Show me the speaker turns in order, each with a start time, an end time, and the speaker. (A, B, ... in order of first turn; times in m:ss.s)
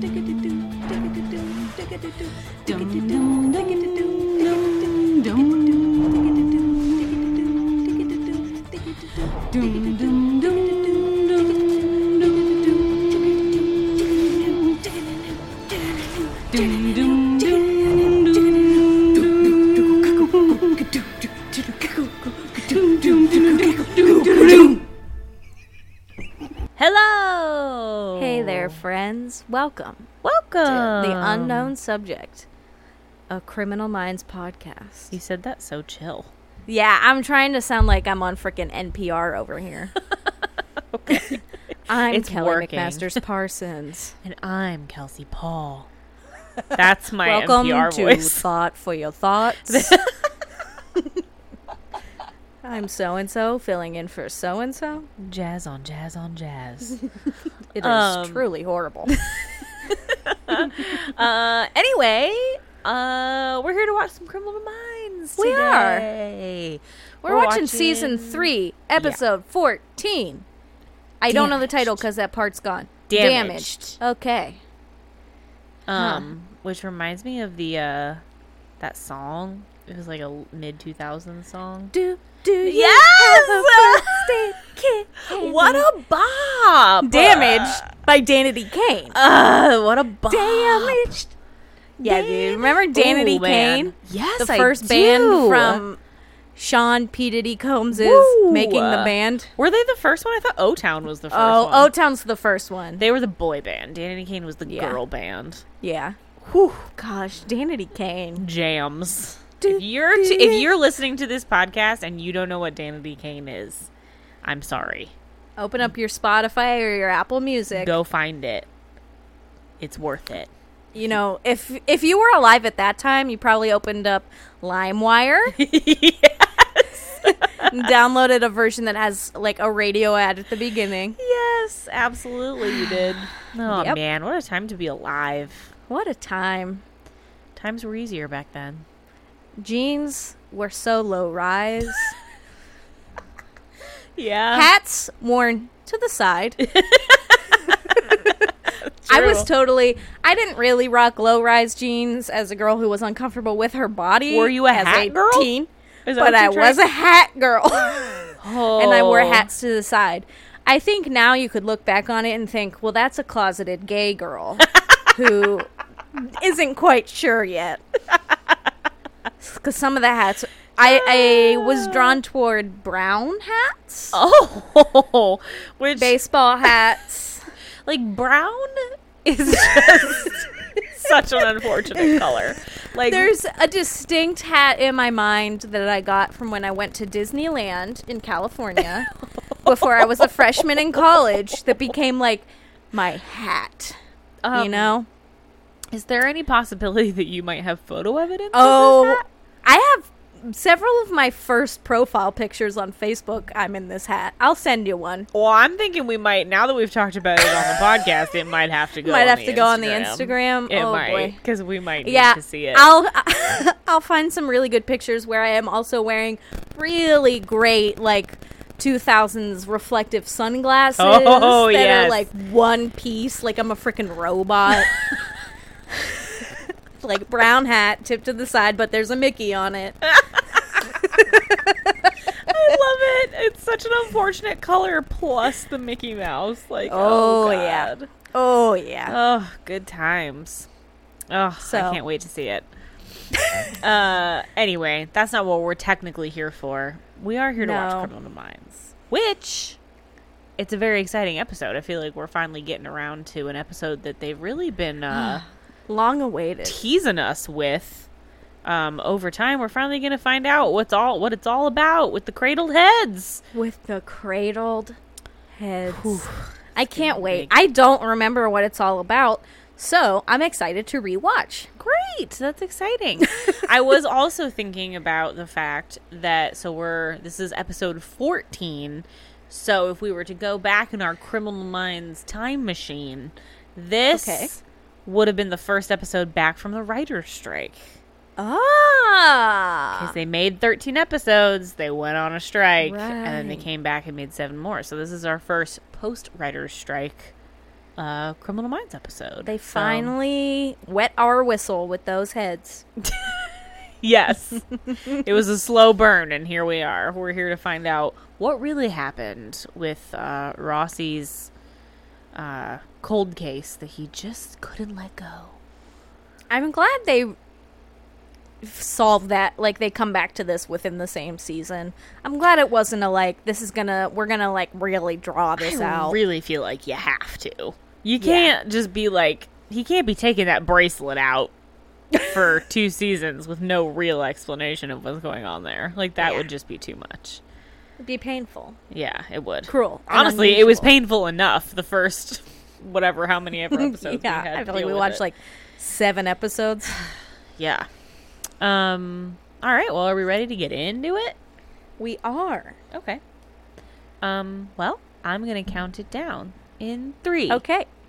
0:01.5-0:04.7 A
0:02.7-0:07.0 B
0:09.5-0:12.9 B
0:09.7-0:10.0 A
0:10.6-0:11.0 A
0:16.5-0:24.7 B
0:16.6-0:16.9 A
0:23.2-0:24.7 A
0:26.8-0:28.8 B
0:28.2-0:30.1 A
0:30.2-0:31.7 B
0:30.6-0:32.5 A
0:33.3-0:35.1 A
0:35.1-0:36.3 B
0:36.7-0:39.9 A
0:40.9-0:43.2 B
0:41.9-0:44.2 A
0:44.2-0:45.9 B
0:46.7-0:48.4 B
0:47.2-0:50.0 A
0:49.6-0:50.1 B
0:52.6-0:55.1 A
0:55.2-0:57.0 B
0:57.7-0:59.2 A
0:57.8-0:58.4 B
0:59.1-1:09.2 B
1:05.4-1:06.1 A
1:07.2-1:10.4 A
1:11.2-1:14.6 A
1:11.3-1:12.0 B
1:13.1-1:13.9 B
1:15.9-1:18.2 B
1:15.9-1:16.3 A
1:18.8-1:21.9 B
1:21.9-1:25.9 A
1:22.6-1:24.5 B
1:25.3-1:27.8 B
1:27.0-1:29.2 A
1:29.1-1:31.2 B
1:30.3-1:31.3 A
1:32.0-1:36.0 A
1:32.0-1:35.8 B
1:36.6-1:39.5 A
1:37.9-1:41.9 B
1:41.3-1:43.0 A
1:43.0-1:45.6 B
1:44.6-1:45.0 A
1:45.8-1:46.2 A
1:46.4-1:46.9 B
1:47.0-1:48.4 A
1:48.4-1:53.9 B
1:49.6-1:50.6 A
1:54.4-1:55.1 B
1:55.6-1:57.9 A
1:57.7-1:58.7 B
1:59.8-2:00.5 B
2:00.9-2:05.6 A
2:05.5-2:07.9 B
2:07.2-2:11.2 A
2:11.2-2:15.7 B
2:13.6-2:14.0 A
2:15.9-2:16.8 A
2:17.5-2:18.8 B
2:19.6-2:22.2 A
2:24.2-2:24.7 B
2:24.5-2:26.6 A
2:26.6-2:28.0 B
2:27.7-2:28.5 A
2:29.0-2:29.5 B
2:29.1-2:47.8 A
2:34.3-2:35.5 B
2:36.0-2:36.8 B
2:38.4-2:39.5 B
2:49.4-2:54.2 A
2:50.8-2:52.2 B
2:54.1-2:56.2 B
2:56.0-2:57.4 A
2:57.8-3:03.3 B
2:59.6-3:01.1 A
3:01.7-3:02.4 A
3:03.0-3:09.1 A
3:08.8-3:11.2 B
3:09.6-3:14.0 A
3:14.4-3:14.9 B
3:14.5-3:15.1 A
3:15.9-3:19.2 B
3:18.5-3:25.3 A
3:25.3-3:32.9 B
3:27.6-3:28.0 A
3:29.0-3:31.4 A
3:32.0-3:45.0 A
3:41.0-3:42.2 B
3:45.9-3:50.1 A
3:50.1-3:51.0 B
3:50.6-3:52.1 A
3:52.4-3:58.1 B
3:56.8-3:59.1 A
3:59.1-4:00.7 B
4:01.3-4:02.7 B
4:01.6-4:02.0 A
4:03.4-4:03.7 A
4:03.7-4:09.8 B
4:07.6-4:08.1 A
4:10.6-4:15.4 B
4:15.1-4:16.8 A
4:16.6-4:18.1 B
4:18.6-4:23.4 B
4:23.5-4:25.0 A
4:25.6-4:31.7 A
4:25.9-4:27.5 B
4:31.8-4:48.0 B
4:44.1-4:44.5 A
4:48.4-4:50.1 A
4:49.9-4:57.3 B
4:52.8-4:53.6 A
4:58.0-5:00.1 B
4:59.4-5:02.8 A
5:03.0-5:03.4 B
5:04.0-5:11.5 B
5:12.3-5:15.6 B
5:16.5-5:17.3 A
5:18.6-5:26.2 A
5:25.6-5:31.5 B
5:28.2-5:28.5 A
5:32.2-5:37.4 B
5:36.2-5:36.5 A
5:38.0-5:38.8 A
5:38.9-5:45.2 B
5:39.7-5:41.0 A
5:43.7-5:47.0 A
5:47.6-5:47.9 B
5:48.6-5:51.4 B
5:52.0-5:52.8 A
5:52.9-5:53.2 B
5:54.2-5:57.6 B
5:57.5-5:57.9 A